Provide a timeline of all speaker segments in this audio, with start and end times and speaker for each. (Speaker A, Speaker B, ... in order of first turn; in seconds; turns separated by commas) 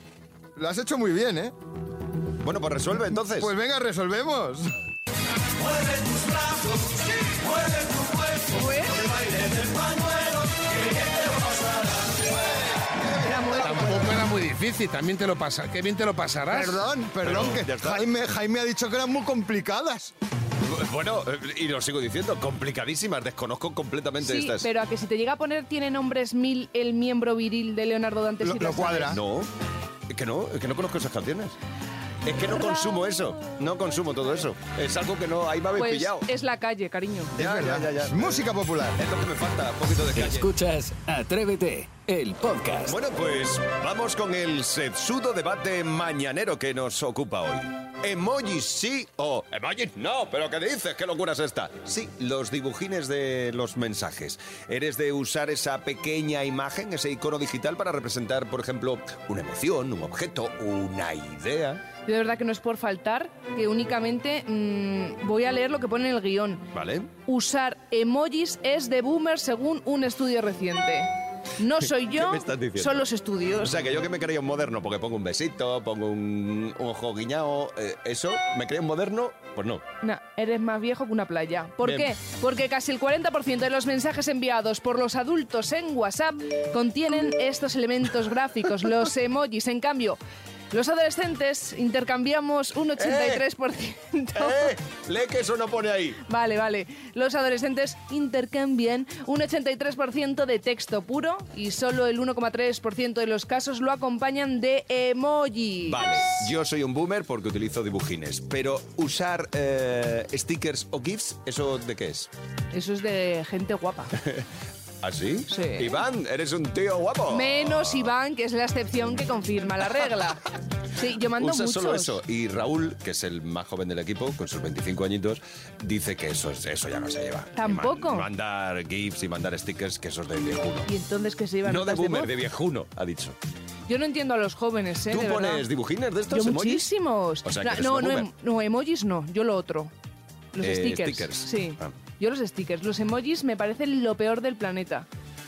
Speaker A: 0.6-1.5, Speaker B: 2.4-3.5, Speaker A: 3.3-4.7, Speaker C: 8.5-9.1, Speaker A: 12.2-14.2, Speaker C: 13.3-13.7, Speaker D: 13.6-16.9, Speaker A: 16.5-20.1, Speaker B: 17.2-18.1, Speaker B: 20.7-24.7, Speaker C: 24.2-29.1, Speaker A: 28.4-29.2, Speaker B: 29.1-29.5, Speaker B: 30.1-31.5, Speaker B: 32.2-36.3, Speaker C: 32.5-33.0, Speaker C: 35.7-37.3, Speaker A: 37.3-39.0, Speaker B: 37.4-40.5, Speaker E: 40.1-43.0, Speaker B: 42.9-61.8, Speaker C: 62.0-66.6, Speaker B: 66.7-67.1, Speaker C: 67.2-73.8, Speaker B: 71.8-73.0, Speaker B: 73.6-79.8, Speaker C: 80.0-90.2, Speaker B: 81.8-82.1, Speaker C: 90.7-94.7, Speaker B: 93.0-93.4, Speaker B: 94.3-96.2, Speaker C: 96.3-106.2, Speaker B: 105.9-112.3, Speaker C: 112.7-114.1, Speaker B: 114.2-114.4, Speaker B: 115.0-118.1, Speaker C: 115.5-116.0, Speaker C: 117.3-122.2, Speaker B: 121.3-130.9, Speaker C: 127.5-128.3, Speaker C: 130.8-132.3, Speaker B: 131.6-133.3, Speaker C: 133.9-135.7, Speaker B: 135.1-136.9, Speaker C: 136.3-139.9, Speaker B: 137.4-138.3, Speaker C: 140.5-145.1, Speaker B: 140.6-141.9